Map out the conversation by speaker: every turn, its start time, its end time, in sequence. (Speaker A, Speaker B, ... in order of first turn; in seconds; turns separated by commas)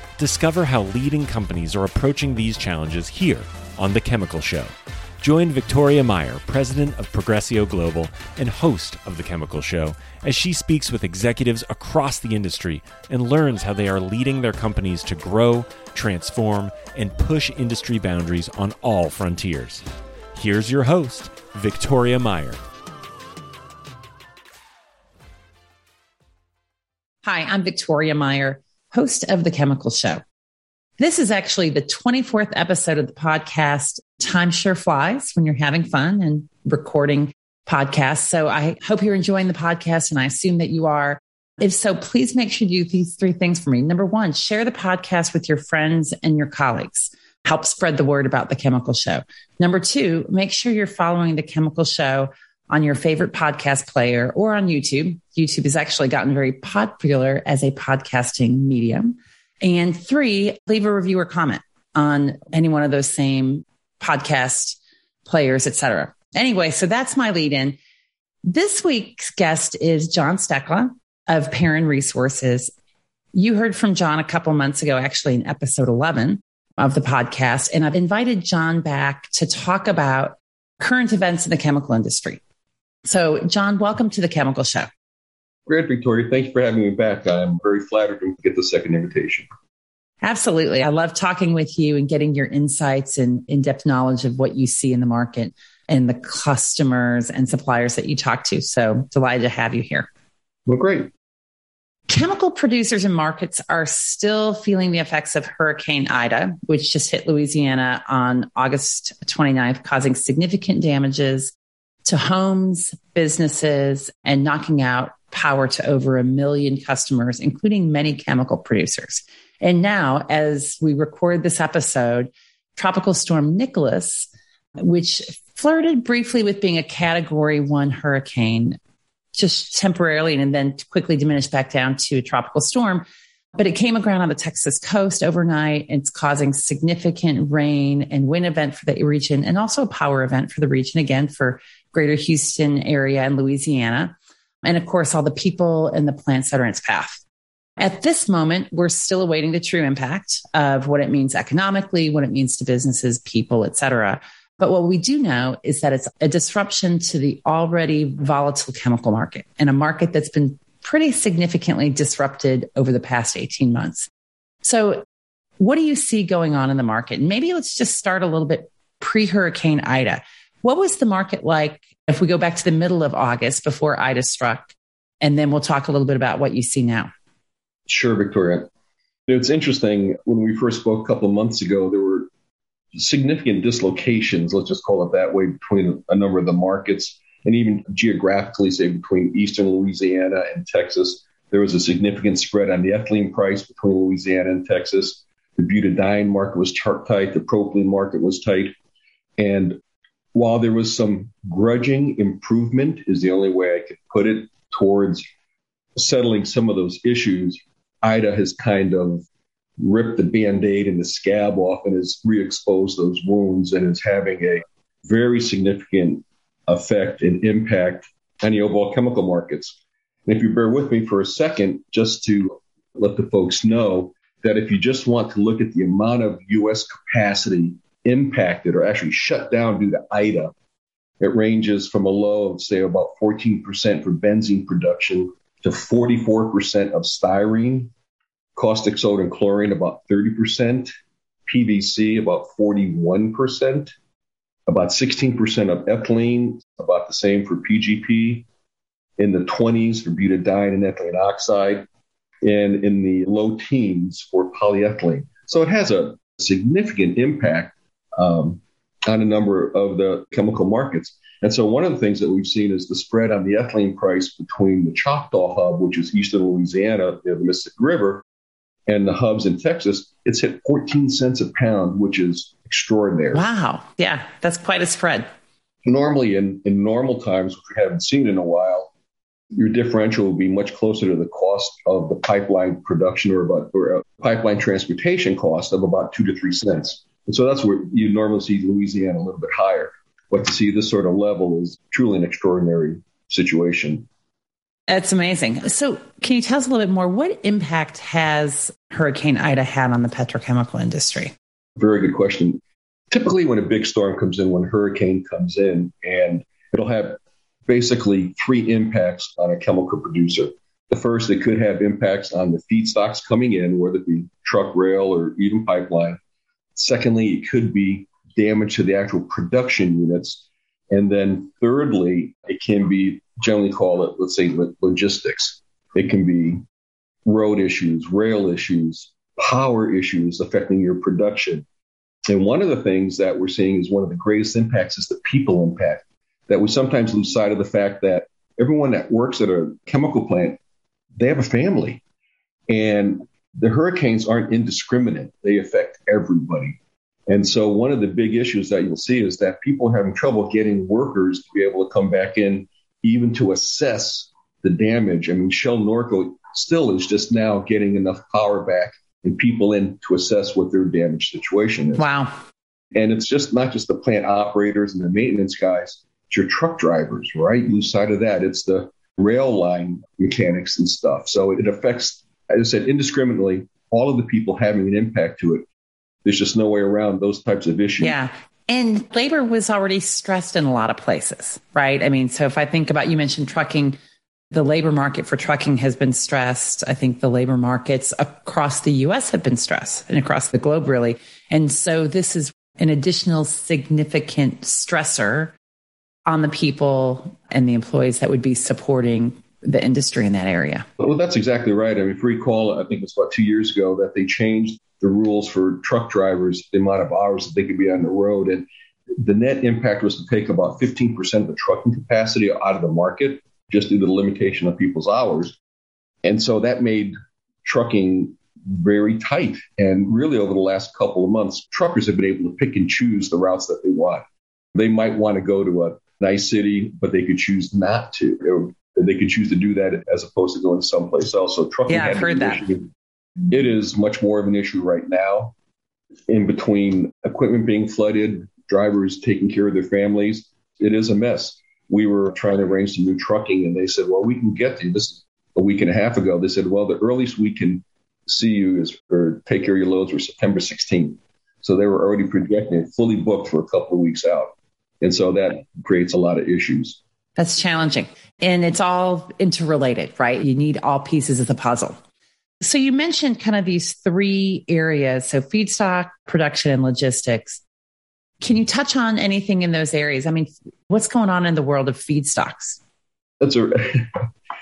Speaker A: 0.2-22.6, Speaker B: 27.2-30.2, Speaker B: 31.0-67.8, Speaker B: 68.5-72.7, Speaker B: 73.3-82.4, Speaker B: 83.0-84.9, Speaker C: 85.7-89.5, Speaker B: 90.2-100.1, Speaker C: 100.7-101.1, Speaker B: 102.1-111.5, Speaker B: 112.0-128.8, Speaker B: 129.3-133.0, Speaker B: 133.6-147.2, Speaker B: 147.8-164.1, Speaker B: 164.6-165.0, Speaker B: 165.6-177.1, Speaker C: 177.9-178.7, Speaker C: 179.3-182.3, Speaker C: 182.9-198.7, Speaker C: 199.4-199.8, Speaker C: 200.3-205.2, Speaker C: 205.9-209.2, Speaker C: 209.8-230.5, Speaker C: 231.2-237.9, Speaker C: 238.6-240.9, Speaker C: 241.4-243.9, Speaker C: 244.7-248.4, Speaker C: 249.2-251.9, Speaker C: 252.4-268.2, Speaker C: 268.9-273.4, Speaker B: 273.3-275.3, Speaker C: 275.8-278.9, Speaker C: 279.5-294.1, Speaker B: 294.9-301.3, Speaker C: 301.8-316.2, Speaker C: 316.8-326.6, Speaker C: 327.2-331.6, Speaker C: 332.3-340.6, Speaker C: 341.2-342.0, Speaker C: 342.7-362.1, Speaker B: 362.0-362.3, Speaker C: 362.9-375.6, Speaker C: 376.2-378.1, Speaker B: 378.0-384.0, Speaker B: 384.5-395.5, Speaker B: 396.2-400.9, Speaker C: 401.0-415.6, Speaker C: 416.2-432.9, Speaker B: 431.9-432.6, Speaker C: 433.5-435.5, Speaker C: 436.3-457.0, Speaker B: 457.4-462.0, Speaker B: 462.6-467.6, Speaker B: 468.4-472.8, Speaker C: 473.4-474.3